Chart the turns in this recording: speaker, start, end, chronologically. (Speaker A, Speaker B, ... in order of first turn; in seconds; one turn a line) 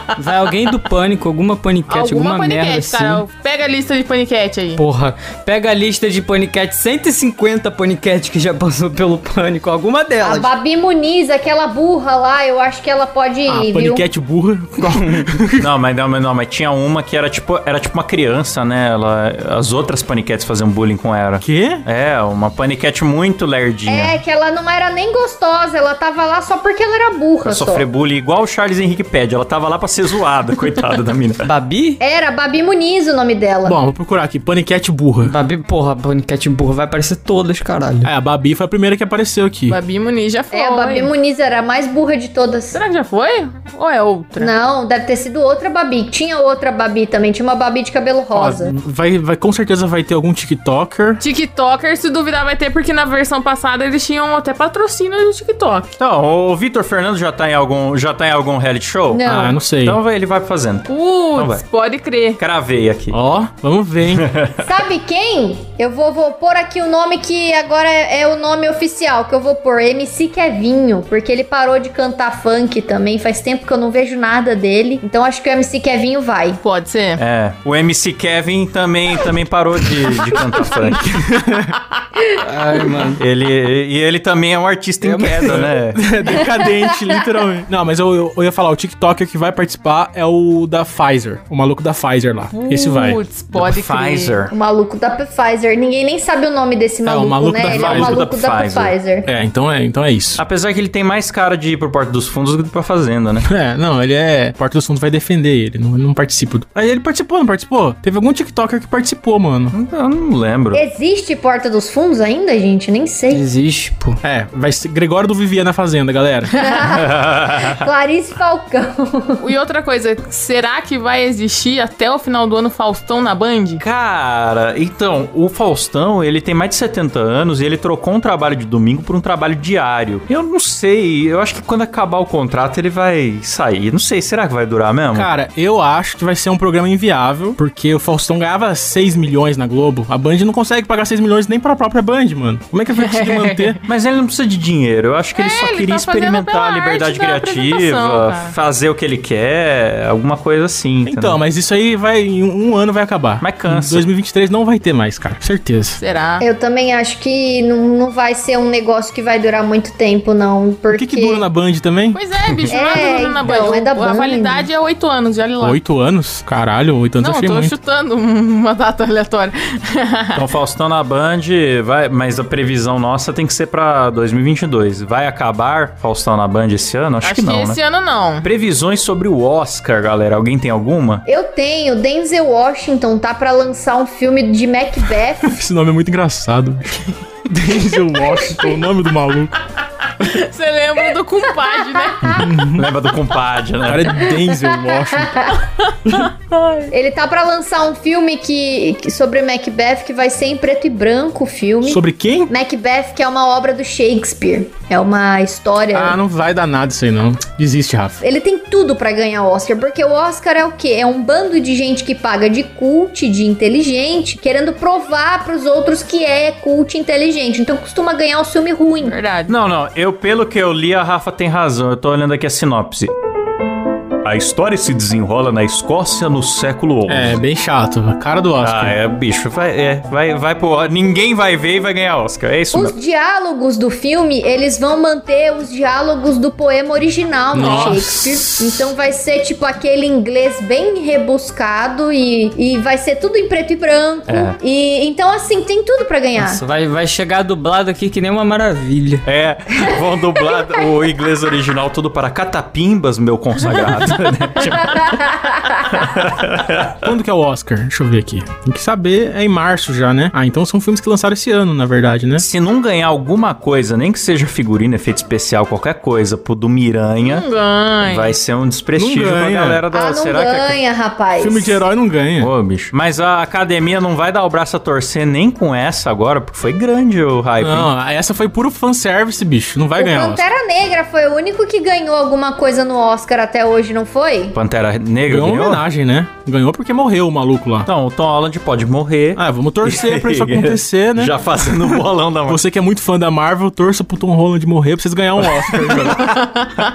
Speaker A: 0.2-3.2
Speaker B: 1.9-4.8
Speaker A: 4.8-10.5
Speaker C: 10.2-14.1
Speaker D: 13.5-15.7
Speaker E: 15.6-24.2
Speaker D: 21.4-21.9
Speaker C: 23.9-27.9
Speaker E: 27.4-31.4
Speaker A: 31.4-32.0
Speaker C: 32.0-33.8
Speaker D: 33.6-35.4
Speaker A: 35.2-38.1
Speaker D: 38.0-39.8
Speaker B: 39.7-41.1
Speaker C: 40.5-42.8
Speaker B: 42.7-44.5
Speaker C: 44.4-48.7
Speaker D: 48.3-51.2
Speaker B: 51.2-55.9
Speaker E: 56.0-61.6
Speaker C: 59.1-59.6
Speaker D: 59.2-60.0
Speaker B: 60.9-62.4
Speaker E: 62.4-63.2
Speaker D: 63.1-64.3
Speaker E: 64.1-64.7
Speaker C: 64.6-76.6
Speaker B: 76.6-77.2
Speaker E: 77.2-81.2
Speaker D: 81.0-81.8
Speaker A: 82.4-83.2
Speaker E: 83.2-86.0
Speaker A: 85.0-85.8
Speaker D: 85.5-93.2
Speaker C: 86.6-86.9
Speaker B: 92.5-94.4
Speaker E: 93.5-94.5
Speaker C: 94.5-99.3
Speaker D: 97.0-98.2
Speaker E: 97.7-99.0
Speaker D: 99.3-100.4
Speaker E: 100.4-103.5
Speaker D: 103.5-109.8
Speaker E: 109.7-110.8
Speaker C: 110.7-113.4
Speaker A: 113.3-114.2
Speaker D: 114.2-116.5
Speaker C: 116.6-119.4
Speaker E: 116.8-117.8
Speaker B: 119.4-123.8
Speaker E: 123.8-135.3
Speaker D: 135.1-143.8
Speaker B: 143.0-143.8
Speaker E: 143.9-151.4
Speaker B: 145.4-148.6
Speaker D: 151.1-156.0
Speaker E: 153.4-154.1
Speaker B: 156.0-156.4
Speaker C: 156.4-161.4
Speaker D: 160.9-162.7
Speaker B: 162.1-165.8
Speaker C: 162.7-164.7
Speaker D: 165.6-167.8
Speaker B: 167.2-170.5
Speaker E: 170.3-177.8
Speaker B: 177.2-178.5
Speaker E: 178.4-181.2
Speaker C: 181.3-185.5
Speaker D: 185.4-189.6
Speaker B: 190.2-192.4
Speaker E: 192.3-194.2
Speaker D: 192.3-192.9
Speaker D: 193.8-195.5
Speaker C: 194.6-195.6
Speaker B: 195.9-196.9
Speaker C: 196.9-206.2
Speaker D: 201.8-202.5
Speaker D: 205.9-208.2
Speaker C: 208.2-219.2
Speaker B: 219.0-219.6
Speaker E: 219.5-223.1
Speaker E: 224.2-227.4
Speaker D: 227.1-229.0
Speaker E: 228.6-232.9
Speaker C: 232.7-246.6
Speaker D: 237.5-238.9
Speaker E: 244.3-244.6
Speaker A: 246.4-249.2
Speaker E: 249.2-255.2
Speaker C: 255.0-255.9
Speaker E: 255.9-257.1
Speaker D: 257.0-262.5
Speaker E: 262.4-267.5
Speaker B: 267.2-268.4
Speaker E: 268.0-270.8
Speaker D: 269.0-269.8
Speaker C: 269.9-271.8
Speaker D: 271.4-272.5
Speaker E: 272.4-277.9
Speaker D: 277.6-280.4
Speaker C: 280.0-284.6
Speaker E: 284.5-285.8
Speaker D: 285.3-287.9
Speaker E: 287.9-292.6
Speaker D: 289.4-296.4
Speaker E: 295.4-296.4
Speaker B: 296.3-296.7